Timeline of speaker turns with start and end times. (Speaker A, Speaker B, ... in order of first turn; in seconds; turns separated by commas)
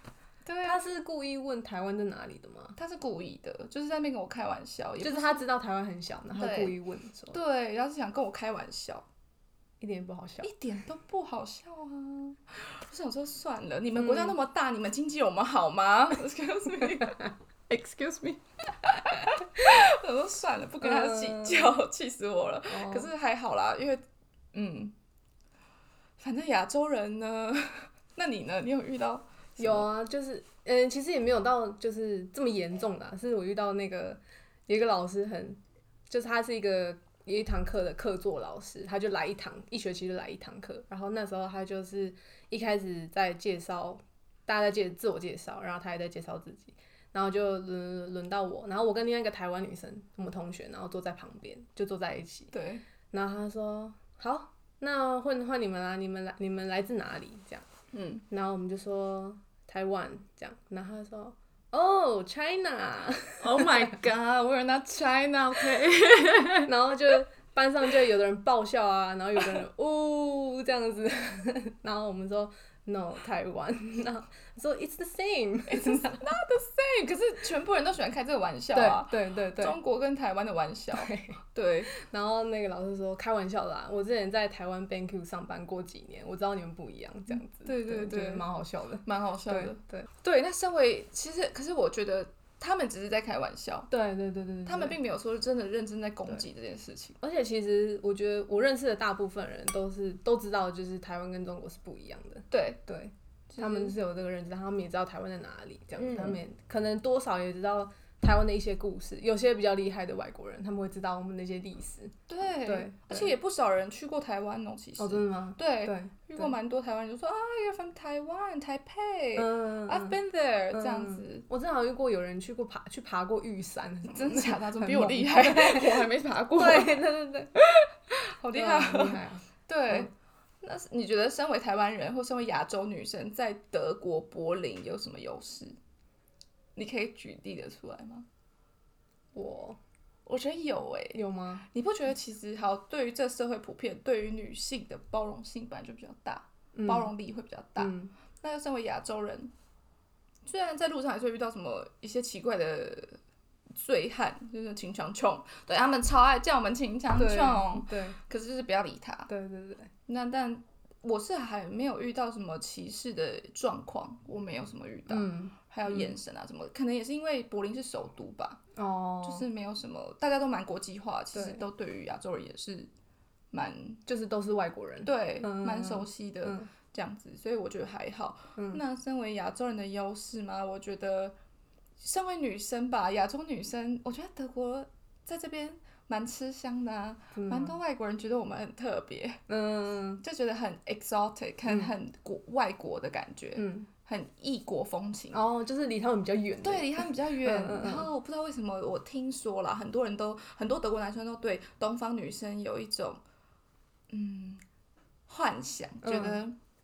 Speaker A: 0.5-0.8, Speaker B: 0.6-2.8, Speaker A: 2.8-5.4, Speaker B: 5.0-7.4, Speaker A: 6.4-6.8, Speaker A: 7.3-9.1, Speaker B: 9.8-10.5, Speaker A: 10.4-24.9, Speaker B: 14.0-14.3, Speaker B: 20.8-21.6, Speaker B: 22.7-23.1, Speaker A: 26.2-29.9, Speaker B: 29.6-52.5, Speaker A: 52.5-52.8, Speaker B: 53.1-57.7, Speaker A: 57.9-58.2, Speaker B: 58.3-63.9, Speaker A: 63.4-67.2, Speaker B: 66.7-76.3, Speaker A: 75.7-81.9, Speaker B: 78.7-79.8, Speaker B: 80.9-81.4, Speaker B: 81.9-90.1, Speaker A: 87.3-88.5, Speaker A: 89.0-93.9, Speaker B: 93.9-95.0, Speaker A: 94.7-97.2, Speaker B: 97.2-113.3, Speaker A: 102.5-102.8, Speaker A: 103.5-103.9, Speaker A: 106.0-106.4, Speaker A: 112.3-121.5, Speaker B: 115.0-116.5, Speaker B: 119.4-120.2, Speaker B: 120.7-127.5, Speaker A: 124.1-127.0, Speaker A: 127.6-130.1, Speaker B: 128.5-130.1, Speaker A: 130.6-135.8, Speaker A: 136.8-138.3, Speaker B: 139.3-139.8, Speaker A: 140.3-149.5, Speaker B: 141.1-141.7, Speaker B: 146.8-147.1, Speaker B: 147.8-148.1, Speaker A: 150.4-153.2, Speaker A: 153.8-159.3, Speaker B: 157.2-158.2, Speaker B: 159.3-159.9, Speaker A: 160.1-168.6, Speaker B: 165.1-166.2, Speaker B: 168.8-169.5, Speaker A: 169.2-172.9, Speaker B: 171.3-171.6, Speaker A: 173.5-174.0, Speaker B: 174.1-176.7, Speaker A: 175.0-181.4, Speaker A: 182.0-189.4, Speaker B: 187.3-187.7, Speaker B: 189.5-190.2, Speaker A: 190.2-195.4, Speaker B: 193.6-193.9, Speaker B: 195.3-198.1, Speaker A: 196.6-203.2, Speaker A: 204.1-204.6, Speaker A: 205.3-206.6, Speaker B: 206.0-206.4